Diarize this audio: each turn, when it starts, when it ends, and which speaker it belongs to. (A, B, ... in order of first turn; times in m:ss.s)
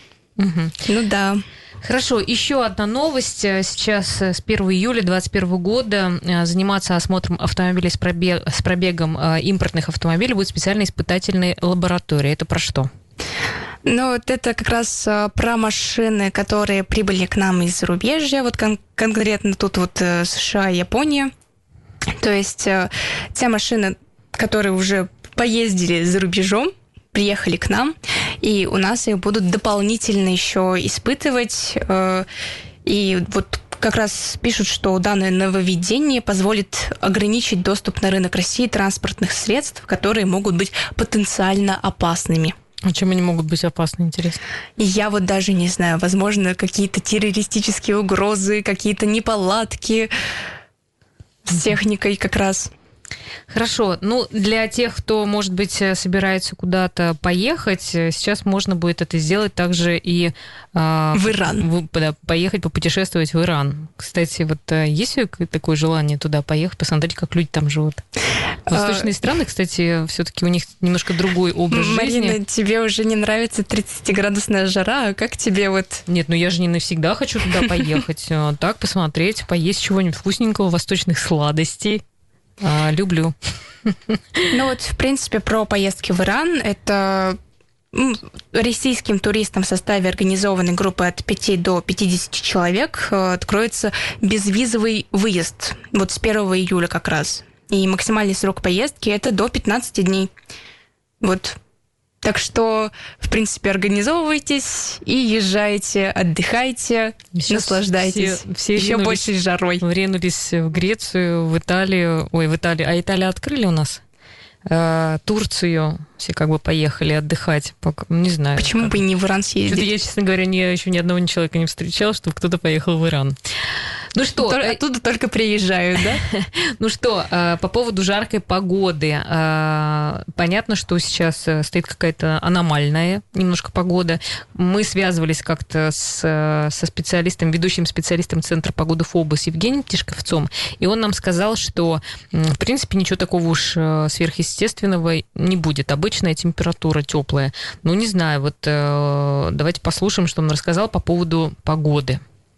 0:00.4-0:00.7 A
0:00.9-0:01.4 B
0:01.8-0:12.9 A
0:13.8-0:21.3 B
0:22.2-0:32.2 B
0:32.8-0:42.5 B
0:42.8-0:44.4 A
0:44.8-0:50.1 B
0:51.4-0:52.7 B
0:53.5-1:08.0 A
1:01.1-1:01.6 B
1:08.7-1:12.4 A
1:08.7-1:09.1 B
1:11.7-1:16.0 B
1:16.1-1:22.0 A
1:22.6-1:23.3 A
1:23.9-1:24.2 A
1:24.5-1:27.4 B
1:27.9-1:40.3 B
1:41.2-1:41.6 B
1:42.2-1:49.8 B
1:47.4-1:49.2 A
1:49.8-1:54.0 A
1:54.7-1:59.0 A
1:58.6-1:59.9 B
1:59.7-2:03.3 A
2:04.1-2:04.8 A
2:04.4-2:06.2 B
2:06.3-2:32.2 A